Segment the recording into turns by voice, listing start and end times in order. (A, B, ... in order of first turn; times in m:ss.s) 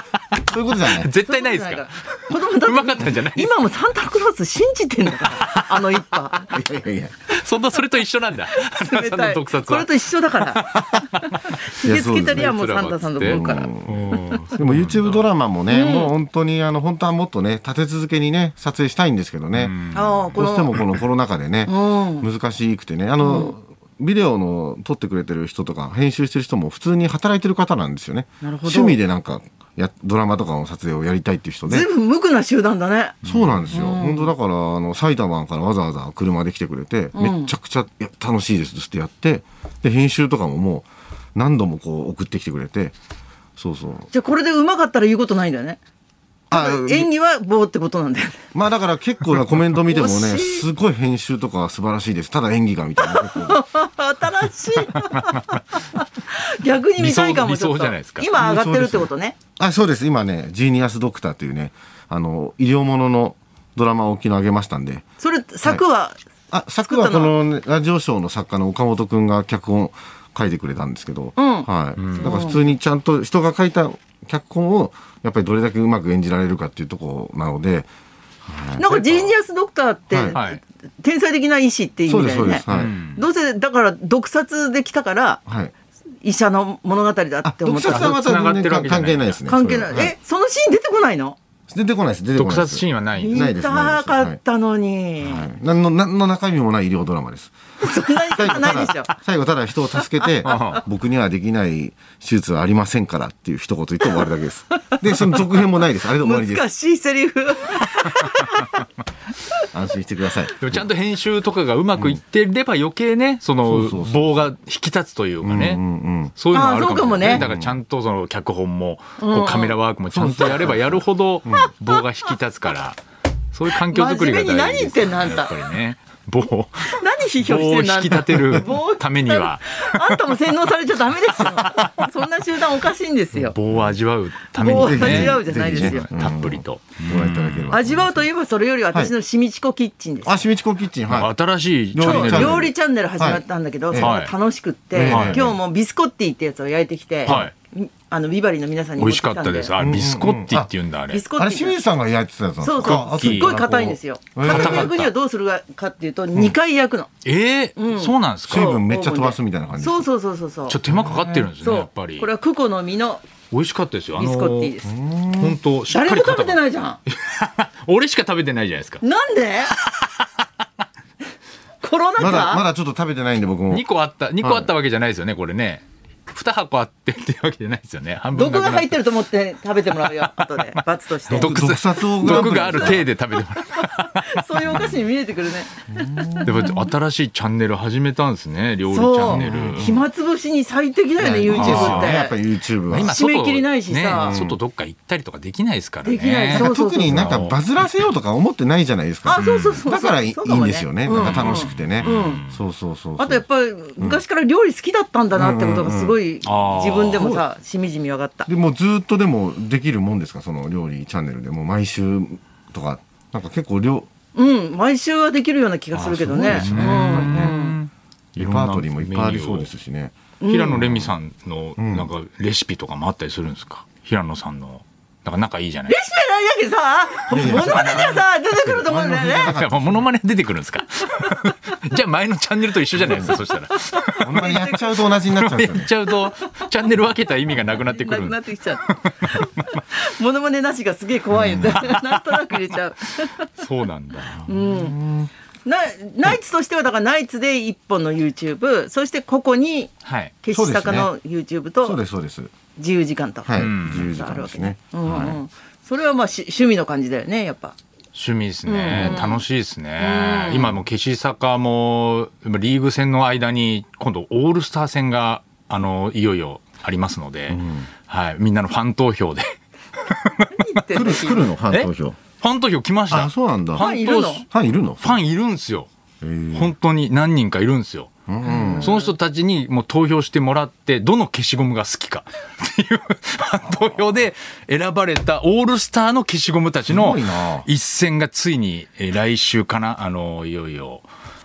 0:00.4-0:01.1 A
0:00.8-0:03.6 B
0:01.2-0:06.5 C
0:05.3-0:05.8 B
0:06.5-0:07.3 A
0:07.3-0:11.6 B
0:08.5-0:11.2 C
0:11.7-0:14.4 C
0:11.8-0:12.5 A
0:12.3-0:15.2 B
0:13.2-0:31.9 A
0:15.7-0:16.1 C
0:19.5-0:21.0 B
0:19.9-0:20.7 C
0:21.6-0:22.3 C
0:23.2-0:23.5 C
0:28.4-0:29.0 C
0:31.7-0:33.2 C
0:33.2-0:33.7 B
0:33.2-0:43.0 A
0:33.7-0:34.3 C
0:37.1-0:37.5 C
0:43.6-0:44.1 A
0:44.1-0:45.8 C
0:46.5-0:47.1 A
0:46.5-0:48.4 C
0:48.5-0:53.6 A
0:49.9-0:50.6 C
0:53.0-0:59.4 C
0:54.9-0:55.6 B
0:57.0-0:58.3 B
0:58.4-1:05.0 A
1:05.2-1:06.2 C
1:06.5-1:17.9 A
1:06.8-1:07.4 C
1:11.4-1:12.6 C
1:12.0-1:12.5 B
1:18.4-1:19.2 A
1:18.8-1:25.4 C
1:20.1-1:20.4 A
1:20.3-1:20.6 B
1:22.1-1:22.9 A
1:22.7-1:23.2 B
1:25.4-1:25.7 A
1:26.2-1:28.2 C
1:27.4-1:30.1 A
1:27.8-1:29.4 B
1:29.4-1:31.4 C
1:31.7-1:34.4 A
1:32.4-1:33.4 B
1:33.2-1:35.5 C
1:35.2-1:37.5 A
1:37.8-1:39.1 C
1:38.3-1:46.7 A
1:40.2-1:40.7 C
1:40.4-1:40.8 B
1:44.8-1:45.4 C
1:46.2-1:48.8 C
1:49.7-1:50.8 A
1:50.6-1:55.8 B
1:53.6-1:54.3 A
1:55.4-1:56.4 A
1:56.4-2:03.0 B
1:56.5-1:57.4 C
1:57.2-1:57.8 A
1:59.2-1:59.8 C
2:00.1-2:01.7 A
2:01.5-2:02.3 C
2:03.5-2:10.4 B
2:03.8-2:05.6 C
2:06.9-2:13.5 C
2:11.3-2:12.1 B
2:13.4-2:17.8 B
2:14.6-2:16.1 C
2:14.7-2:18.3 A
2:17.7-2:20.4 C
2:20.2-2:21.3 A
2:21.1-2:22.7 B
2:21.9-2:24.2 A
2:22.0-2:29.7 C
2:24.0-2:24.3 B
2:24.9-2:25.6 A
2:25.0-2:25.5 B
2:27.2-2:27.5 B
2:29.0-2:31.2 B
2:29.8-2:30.7 A
2:31.1-2:31.8 C
2:31.4-2:35.0 A
2:32.6-2:37.1 C
2:32.8-2:33.6 B
2:34.4-2:35.1 B
2:37.2-2:38.7 B
2:37.8-2:40.8 C
2:38.5-2:40.0 A
2:40.7-2:42.3 B
2:40.8-2:41.5 A
2:41.6-2:43.2 C
2:43.5-2:44.8 B
2:44.1-2:44.9 C
2:44.8-2:45.6 A
2:45.4-2:49.0 B
2:45.9-2:47.0 C
2:49.0-2:49.7 C
2:49.7-2:50.4 B
2:51.8-2:52.6 C
2:52.2-2:53.8 A
2:53.7-2:59.0 B
2:54.4-2:54.7 A
2:58.3-3:01.7 C
2:59.9-3:00.6 B
3:01.3-3:03.1 A
3:01.3-3:05.0 B
3:02.2-3:06.5 C
3:04.6-3:05.0 A
3:05.9-3:06.8 A
3:06.4-3:09.9 B
3:08.9-3:12.4 C
3:09.3-3:10.0 A
3:11.2-3:13.1 A
3:11.5-3:12.2 B
3:12.9-3:17.6 B
3:13.0-3:14.4 C
3:14.1-3:14.6 A
3:16.0-3:17.5 C
3:16.5-3:23.4 A
3:19.2-3:22.4 C
3:19.4-3:19.8 B
3:21.1-3:22.6 B
3:23.2-3:28.5 C
3:25.3-3:26.2 A
3:26.4-3:27.3 B
3:27.2-3:27.4 A
3:28.5-3:34.1 A
3:34.3-3:37.8 C
3:35.9-3:39.7 B
3:36.3-3:37.6 A
3:38.4-3:41.1 A
3:40.4-3:40.8 C
3:40.5-3:46.0 B
3:41.8-3:42.1 A
3:45.9-3:49.6 C
3:47.3-3:50.1 A
3:47.4-3:48.1 B
3:49.5-3:59.7 B
3:53.0-3:53.4 A
3:54.2-3:55.9 A
3:54.3-3:54.8 C
3:56.2-3:56.7 C
3:57.6-4:03.5 C
4:01.4-4:02.1 B
4:03.5-4:04.5 B
4:04.4-4:05.0 C
4:04.6-4:05.3 A
4:05.6-4:12.0 C
4:10.0-4:10.3 B
4:10.5-4:11.1 A
4:11.8-4:12.5 A
4:12.8-4:17.8 C
4:13.4-4:15.4 A
4:13.6-4:14.1 B
4:18.1-4:30.7 B
4:18.6-4:19.4 C
4:18.9-4:19.2 A
4:20.0-4:20.7 C
4:27.5-4:27.9 A
4:30.5-4:31.5 C
4:30.9-4:32.2 A
4:31.7-4:34.5 B
4:33.1-4:33.8 A
4:33.8-4:34.4 C
4:34.5-4:35.2 A
4:35.0-4:35.9 B
4:36.2-4:36.7 A
4:36.5-4:38.1 B
4:38.3-4:39.0 A
4:38.4-4:39.1 C
4:38.7-4:51.0 B
4:46.8-4:47.7 A